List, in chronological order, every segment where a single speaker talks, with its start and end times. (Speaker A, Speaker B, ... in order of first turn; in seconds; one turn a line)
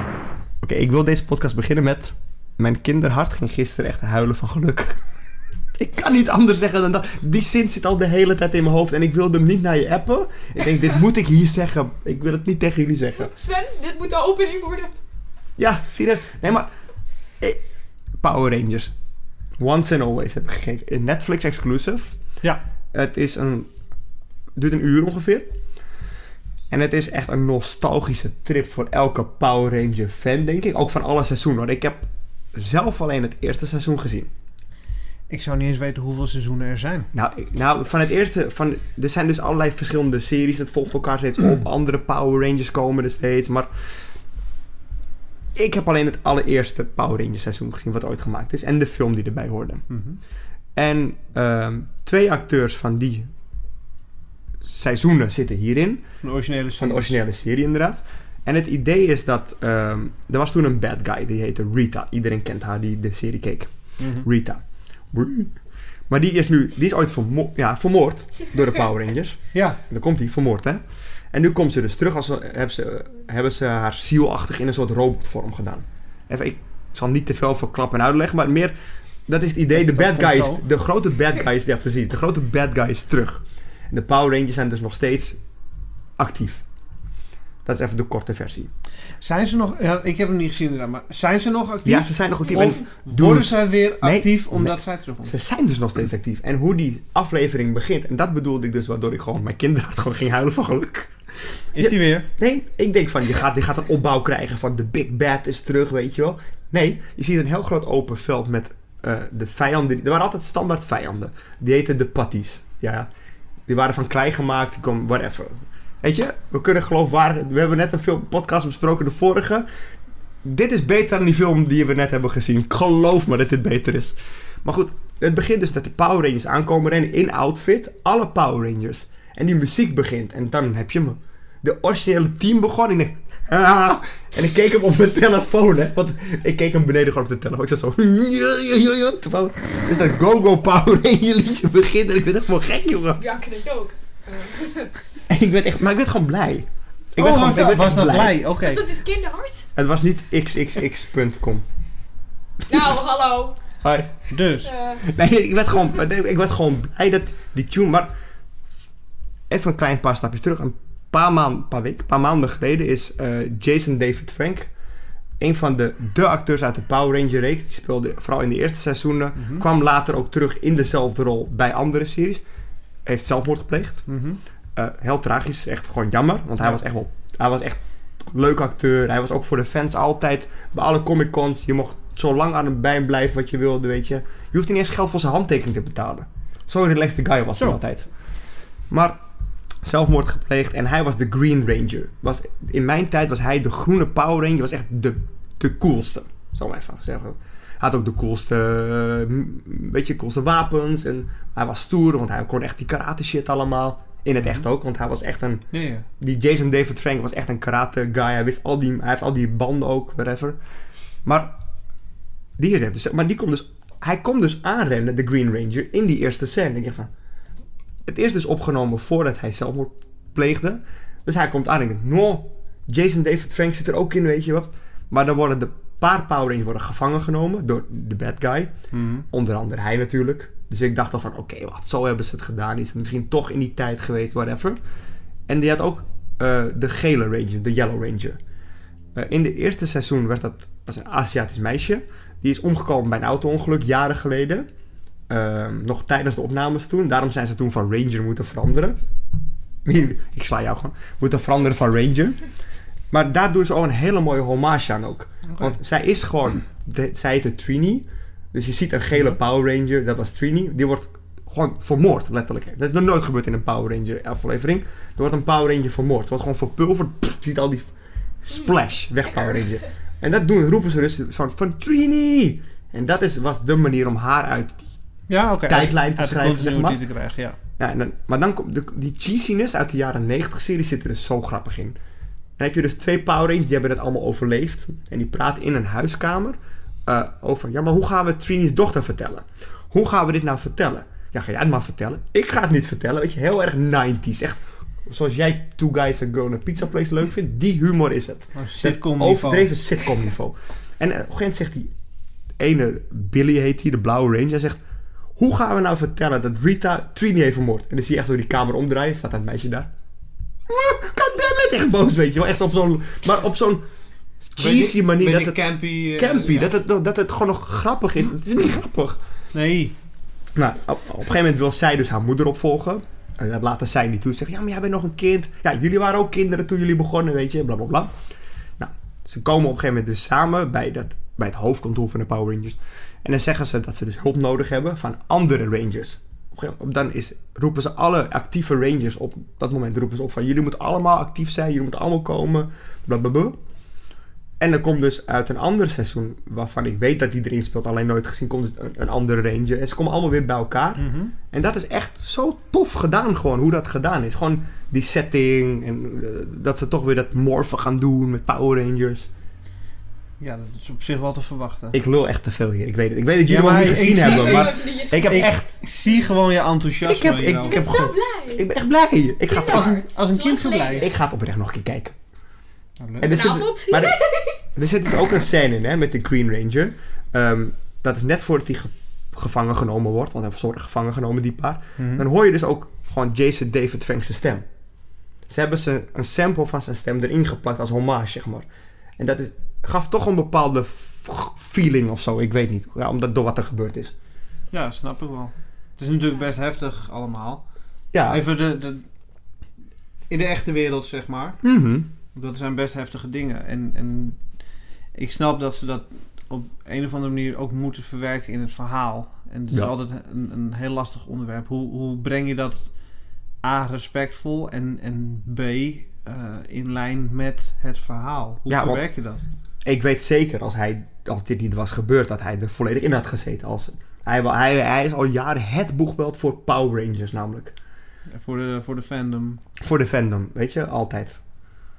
Speaker A: 0.6-5.0
Speaker A: 5.8-13.3
Speaker B: 13.1-14.9
Speaker A: 15.6-16.7
Speaker A: 18.2-18.9
Speaker A: 19.6-22.2
Speaker A: 22.9-23.7
Speaker A: 24.6-25.5
Speaker A: 26.7-34.3
Speaker C: 35.3-37.1
Speaker A: 37.1-44.2
Speaker A: 45.5-49.9
Speaker C: 49.9-50.2
Speaker A: 50.8-53.3
Speaker A: 54.6-56.1
Speaker C: 56.2-57.2
Speaker A: 56.8-78.7
Speaker C: 64.0-64.3
Speaker C: 69.5-69.8
Speaker A: 79.3-85.4
Speaker C: 79.7-80.6
Speaker A: 86.2-86.7
Speaker A: 87.7-88.7
Speaker C: 89.2-95.3
Speaker A: 91.8-113.1
Speaker C: 101.8-102.3
Speaker A: 113.7-119.7
Speaker A: 120.4-143.2
Speaker B: 143.2-145.0
Speaker A: 145.3-148.4
Speaker C: 147.2-148.9
Speaker B: 148.6-149.7
Speaker A: 149.8-151.7
Speaker B: 152.7-153.6
Speaker A: 153.8-154.4
Speaker C: 154.3-154.7
Speaker B: 154.6-155.0
Speaker A: 155.0-158.1
Speaker A: 159.5-164.7
Speaker A: 165.4-172.4
Speaker C: 169.4-169.7
Speaker A: 173.1-174.1
Speaker C: 174.1-174.4
Speaker A: 174.8-188.2
Speaker A: 188.9-189.2
Speaker A: 189.8-205.7
Speaker C: 205.7-206.1
Speaker A: 206.2-210.6
Speaker A: 211.2-211.6
Speaker A: 212.6-217.1
Speaker A: 218.1-228.7
Speaker C: 228.9-229.3
Speaker A: 229.3-234.8
Speaker A: 235.5-238.4
Speaker A: 239.2-244.7
Speaker A: 245.3-249.0
Speaker A: 249.8-252.4
Speaker A: 253.1-274.9
Speaker C: 255.5-255.8
Speaker C: 275.3-277.6
Speaker A: 275.7-277.0
Speaker A: 277.8-282.0
Speaker A: 282.6-301.9
Speaker C: 298.6-299.7
Speaker A: 302.6-304.8
Speaker A: 305.4-309.9
Speaker A: 310.7-313.8
Speaker A: 314.4-319.2
Speaker C: 314.6-316.6
Speaker C: 319.5-319.9
Speaker A: 320.6-328.1
Speaker A: 328.8-343.6
Speaker A: 344.6-359.3
Speaker C: 351.0-351.3
Speaker C: 360.4-362.0
Speaker A: 361.9-365.7
Speaker C: 363.5-367.9
Speaker B: 364.2-365.5
Speaker A: 367.0-370.0
Speaker B: 367.6-368.6
Speaker B: 369.5-371.1
Speaker C: 369.6-371.1
Speaker A: 370.9-372.2
Speaker C: 373.0-373.3
Speaker A: 373.2-374.2
Speaker B: 373.3-374.6
Speaker A: 374.7-384.6
Speaker C: 382.0-382.2
Speaker A: 385.5-388.7
Speaker A: 389.2-394.1
Speaker C: 394.7-397.6
Speaker A: 398.1-398.4
Speaker C: 398.2-399.1
Speaker C: 400.3-401.6
Speaker A: 401.6-402.1
Speaker C: 402.3-404.5
Speaker C: 405.1-413.0
Speaker C: 413.6-419.4
Speaker A: 418.7-419.1
Speaker A: 419.8-427.8
Speaker C: 428.3-429.6
Speaker A: 429.8-431.4